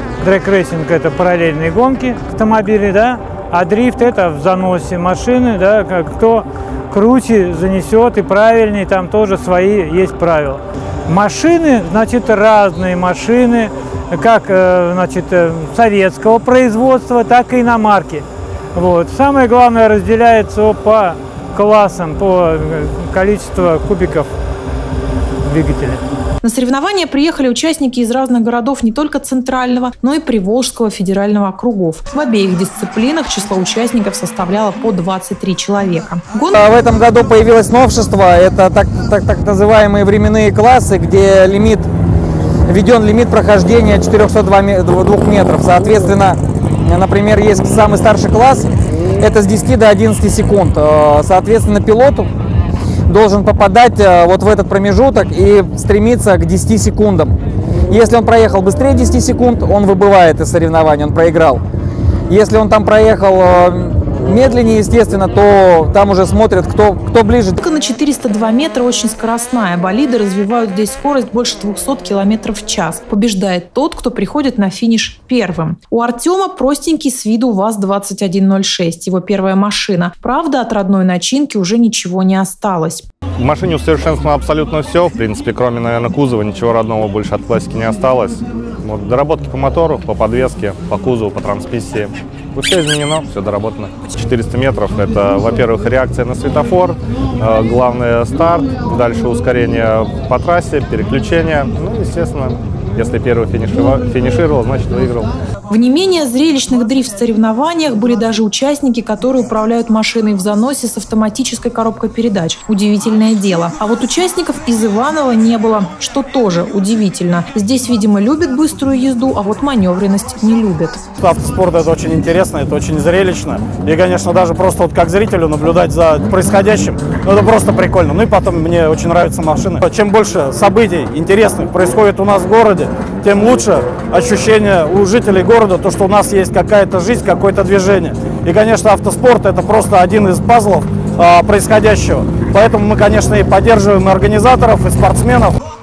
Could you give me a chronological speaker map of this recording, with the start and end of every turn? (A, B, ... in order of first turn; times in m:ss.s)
0:00.2-0:24.3 A
0:25.4-0:26.0 A
0:26.4-0:36.6 B
0:36.6-0:41.9 C
0:42.7-0:52.3 C
0:53.1-0:57.3 C
0:57.9-1:01.6 C
1:02.3-1:07.6 C
1:07.6-1:23.1 B
1:23.4-1:45.3 D
1:45.7-2:01.0 B
2:01.2-2:25.6 E